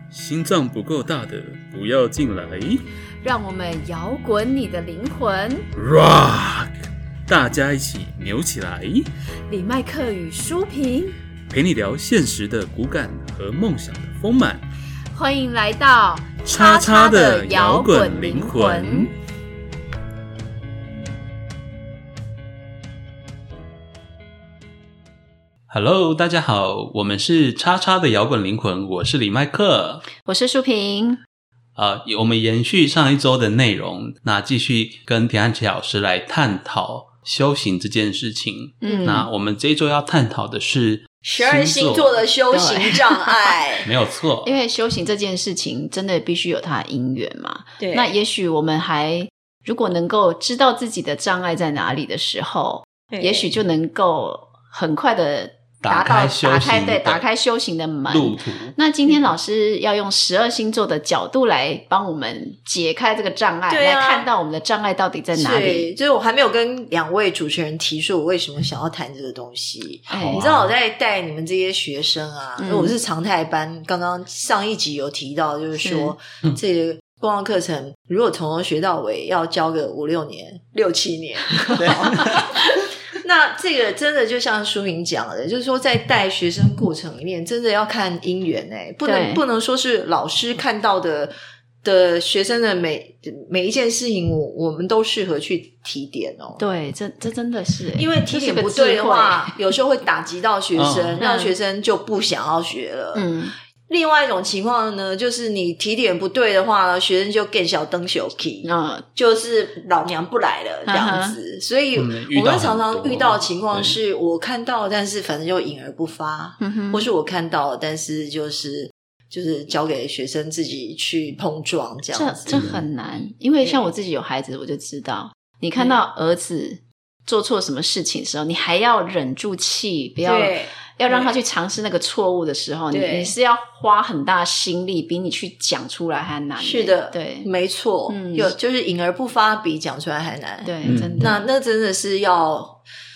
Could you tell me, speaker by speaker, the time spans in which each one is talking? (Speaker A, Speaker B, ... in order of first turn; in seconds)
Speaker A: 0.1-2.8, 5.7-9.1, 11.5-14.6, 16.5-19.1, 25.7-30.0, 31.8-42.2, 43.9-44.5, 55.8-57.2, 58.1-58.7, 70.1-70.7, 81.8-82.5, 100.7-101.2, 111.9-114.0, 140.8-141.3
Speaker B: 3.2-5.7, 9.5-11.2, 15.1-19.1, 30.2-31.2, 38.8-39.3, 42.5-43.4, 44.4-65.9, 70.1-70.4, 72.6-72.9, 75.8-76.1, 82.2-82.5, 89.0-89.4, 96.6-99.6, 101.2-101.5, 103.1-103.5, 108.6-109.0, 110.8-111.4, 116.6-117.1, 122.1-137.5, 138.1-138.5, 140.6-141.5
Speaker C: 38.9-39.2, 41.2-43.9, 47.8-48.1, 53.1-53.5, 63.7-64.3, 65.3-82.5, 83.1-96.6, 98.0-103.3, 103.9-122.7, 123.6-123.9, 130.2-131.4, 132.9-133.3, 136.6-142.8